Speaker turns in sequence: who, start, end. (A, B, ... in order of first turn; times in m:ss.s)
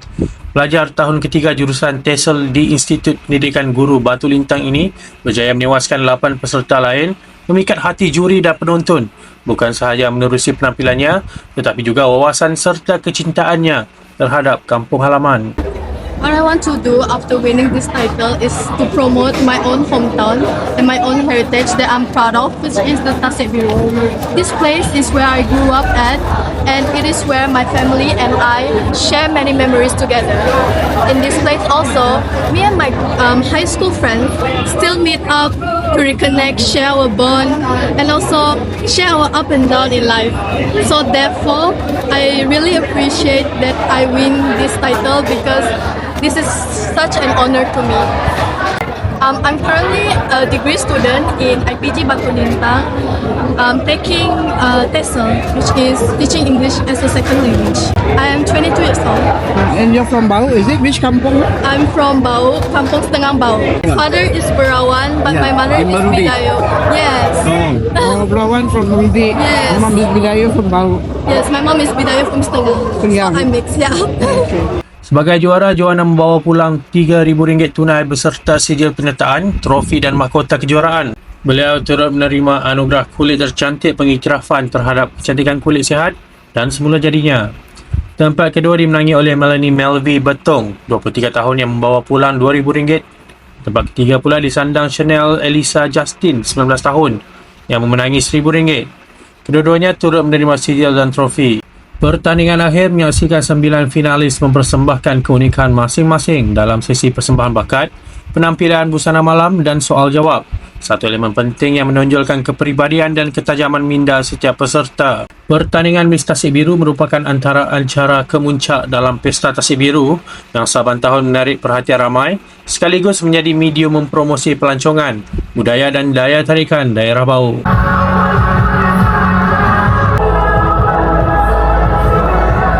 0:00.5-0:15.5 A
0:16.2-0:30.5 B
0:31.1-0:48.1 B
0:49.2-0:52.9 B
0:53.6-0:59.3 B
0:59.6-1:01.5 C
1:01.6-1:08.2 B
1:05.3-1:06.3 C
1:07.4-1:11.1 C
1:09.3-1:10.0 B
1:11.2-1:14.5 B
1:13.0-1:13.4 C
1:15.1-1:27.5 A
1:28.2-1:33.0 A
1:33.6-1:38.9 A
1:39.4-2:07.6 A